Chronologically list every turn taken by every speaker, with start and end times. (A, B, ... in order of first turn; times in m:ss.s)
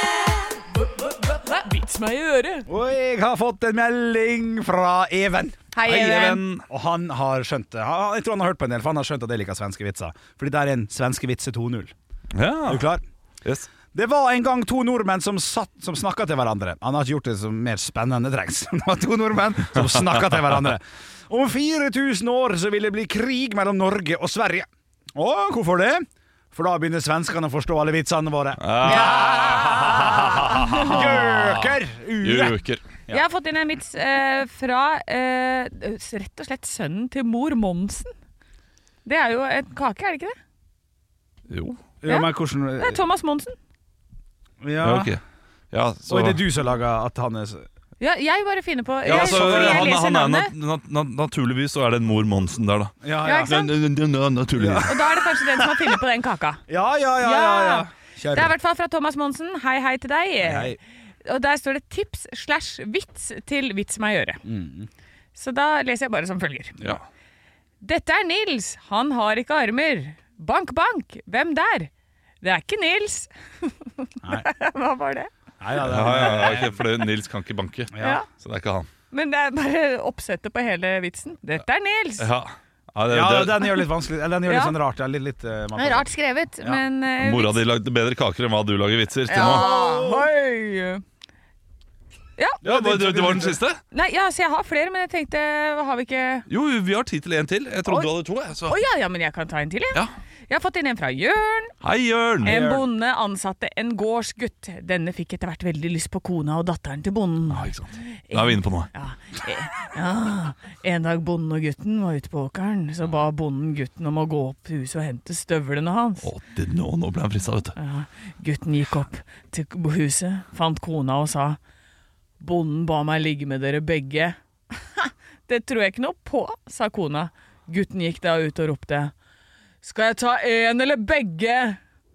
0:00.9-0:02.7 A
0:02.7-0:11.9 B
0:05.7-0:06.4 A
0:05.8-0:06.6 C
0:12.3-0:12.8 C
0:12.6-0:13.0 B
0:13.9-0:33.2 B
0:28.6-0:29.9 C
0:28.8-0:31.0 A
0:30.8-0:32.8 C
0:33.1-0:38.1 A
0:39.0-0:40.4 A
0:41.5-0:41.8 C
0:42.0-0:43.0 B
0:42.0-0:43.6 A
0:44.6-0:45.2 B
0:44.8-0:45.2 C
0:45.7-0:46.4 C
0:46.1-0:47.6 B
0:48.0-0:50.5 A
0:49.0-0:49.9 B
0:49.0-0:54.9 C
0:53.0-0:53.7 B
0:53.2-0:53.7 A
0:54.5-0:55.9 B
0:54.8-0:56.6 A
0:56.7-0:58.5 B
0:57.2-1:04.4 A
1:00.4-1:00.8 B
1:04.4-1:04.9 B
1:05.3-1:06.8 A
1:07.8-1:11.9 A
1:12.4-1:15.3 A
1:15.6-1:16.8 B
1:15.8-1:18.9 C
1:17.9-1:18.2 B
1:18.0-1:18.2 A
1:19.1-1:22.3 A
1:22.2-1:23.8 C
1:23.1-1:26.1 B
1:24.4-1:24.7 A
1:25.8-1:27.6 A
1:27.2-1:29.6 C
1:29.3-1:31.0 A
1:29.3-1:30.3 B
1:32.6-1:33.6 B
1:32.6-1:33.8 C
1:33.9-1:36.5 A
1:36.5-1:38.8 C
1:38.6-1:41.7 A
1:41.8-1:42.7 C
1:42.4-1:42.8 B
1:42.4-1:47.7 A
1:47.5-1:48.9 C
1:48.3-1:56.3 A
1:56.2-1:57.8 C
1:57.8-2:01.6 A
2:02.4-2:09.1 A
2:09.8-2:11.8 A